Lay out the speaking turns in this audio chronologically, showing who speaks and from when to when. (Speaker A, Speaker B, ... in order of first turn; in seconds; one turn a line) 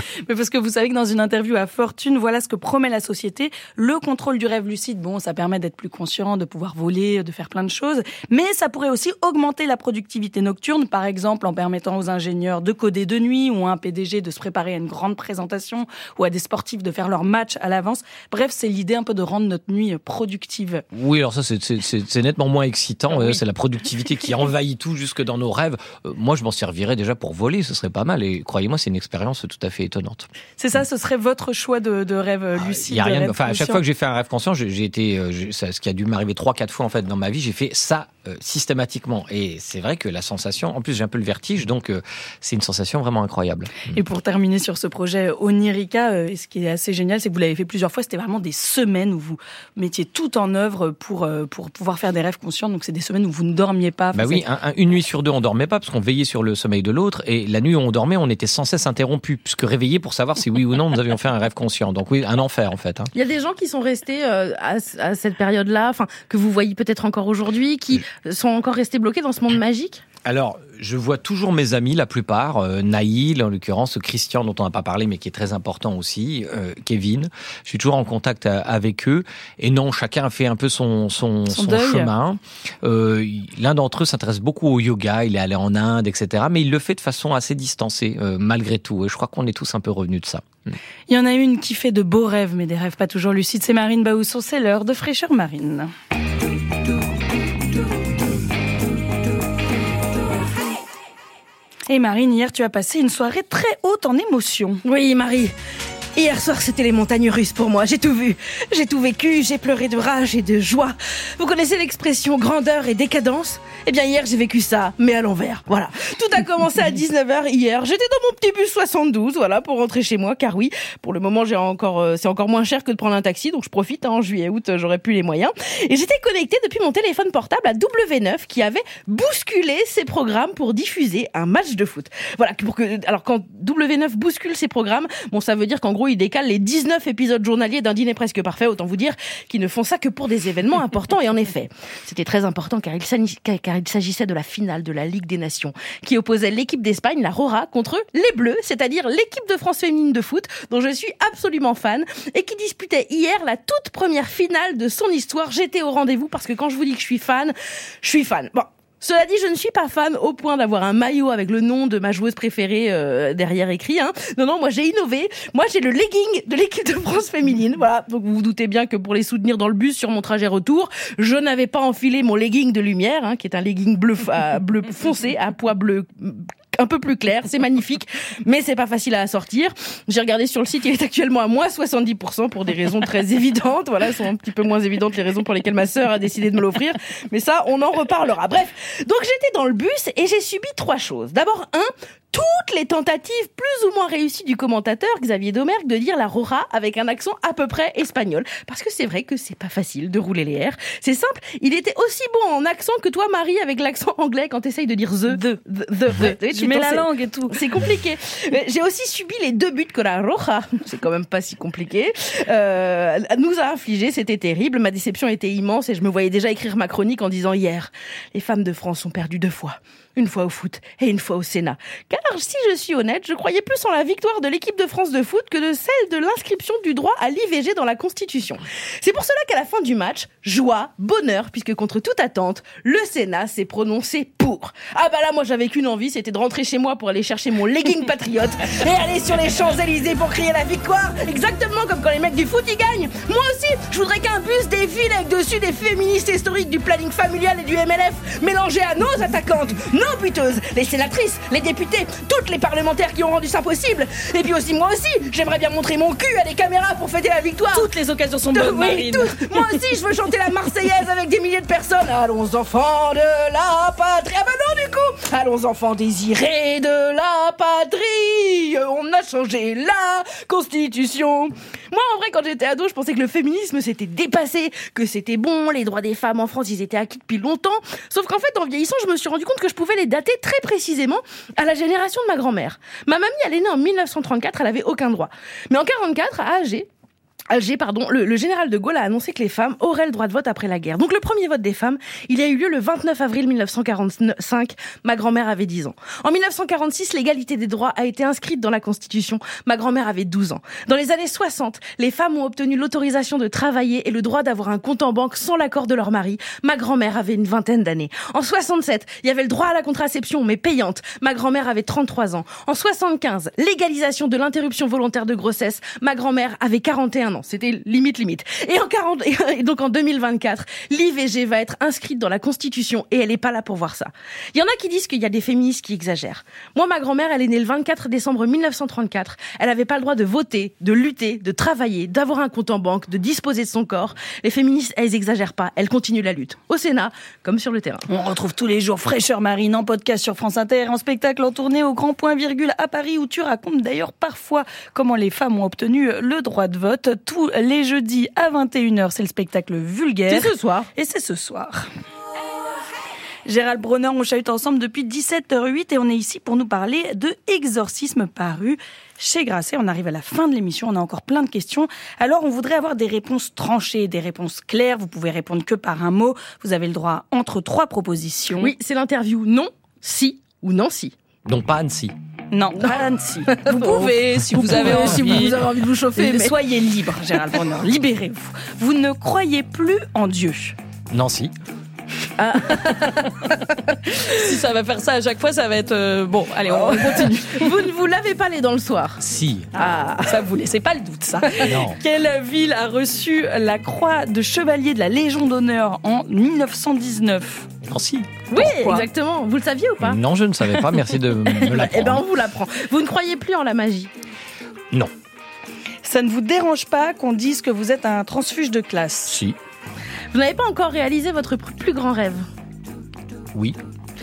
Speaker A: 0.3-20.8
Speaker B: 20.9-30.3
Speaker A: 30.6-33.8
Speaker B: 32.6-44.0
Speaker A: 43.9-54.4
Speaker B: 54.1-63.1
Speaker C: 63.1-70.0
Speaker B: 70.2-90.7
Speaker A: 81.5-82.1
Speaker A: 91.1-95.9
Speaker A: 101.9-104.8
Speaker C: 104.8-105.5
Speaker C: 106.2-257.9
Speaker A: 205.3-205.6
Speaker A: 206.1-207.6
Speaker A: 257.7-259.8
Speaker C: 258.5-286.9
Speaker C: 287.5-338.1
Speaker A: 338.1-351.9
Speaker C: 350.3-350.9
Speaker A: 353.5-368.7
Speaker C: 368.6-371.1
Speaker B: 371.5-372.1
Speaker A: 372.5-375.6
Speaker C: 372.8-376.6
Speaker A: 376.2-380.8
Speaker B: 381.1-381.5
Speaker C: 382.4-384.0
Speaker A: 382.7-383.2
Speaker A: 384.1-387.7
Speaker C: 386.7-389.2
Speaker B: 389.2-389.7
Speaker C: 389.8-390.4
Speaker A: 390.2-397.7
Speaker B: 391.6-392.0
Speaker B: 397.8-398.4
Speaker C: 398.5-400.2
Speaker A: 398.5-399.1
Speaker B: 400.0-402.2
Speaker C: 401.5-404.1
Speaker A: 406.0-409.4
Speaker B: 409.3-409.6
Speaker C: 410.3-412.5